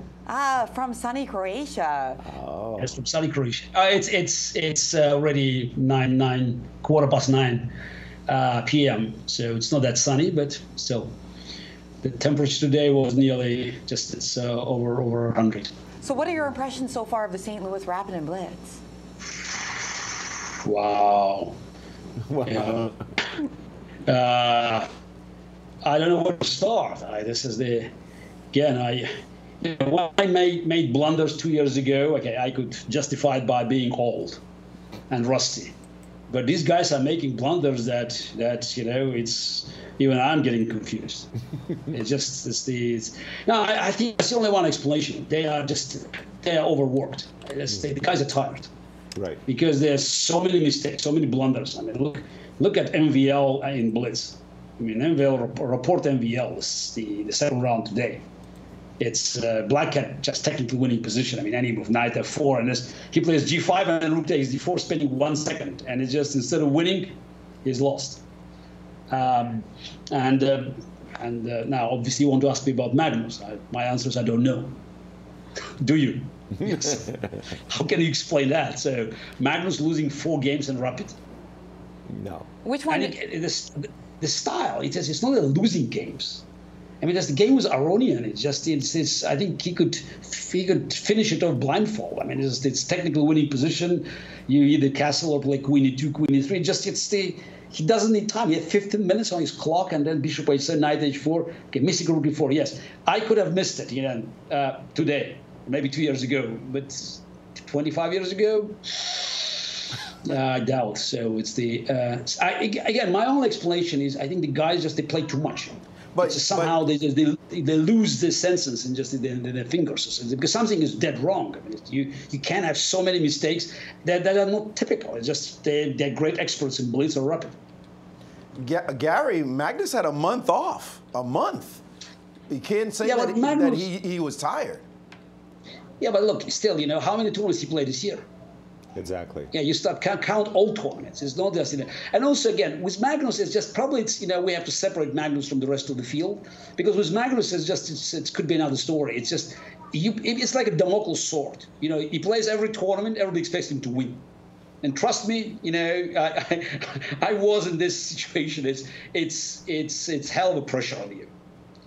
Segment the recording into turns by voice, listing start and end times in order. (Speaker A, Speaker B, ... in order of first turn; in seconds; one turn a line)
Speaker A: 0.2-2.2
Speaker B: 2.2-2.9
Speaker C: 2.8-7.7
Speaker C: 8.3-11.1
Speaker C: 12.0-15.7
Speaker A: 16.0-18.8
Speaker C: 19.4-21.5
Speaker B: 22.3-22.9
Speaker C: 22.4-22.9
Speaker C: 24.1-24.9
Speaker C: 25.8-27.9
Speaker C: 28.5-29.1
Speaker C: 29.6-34.4
Speaker C: 35.1-35.7
Speaker C: 36.3-41.3
Speaker C: 41.8-48.7
Speaker B: 49.1-49.4
Speaker C: 49.5-58.2
Speaker C: 59.0-68.2
Speaker C: 69.1-74.8
Speaker C: 75.8-77.2
Speaker C: 77.7-81.2
Speaker B: 82.1-82.5
Speaker A: 82.6-83.2
Speaker C: 82.9-86.4
Speaker C: 87.0-127.5
Speaker D: 116.1-116.8
Speaker D: 128.6-131.8
Speaker D: 132.5-134.8
Speaker C: 133.0-133.9
Speaker C: 136.0-138.2
Speaker B: 138.9-139.5
Speaker C: 139.5-154.2
Speaker C: 154.8-161.3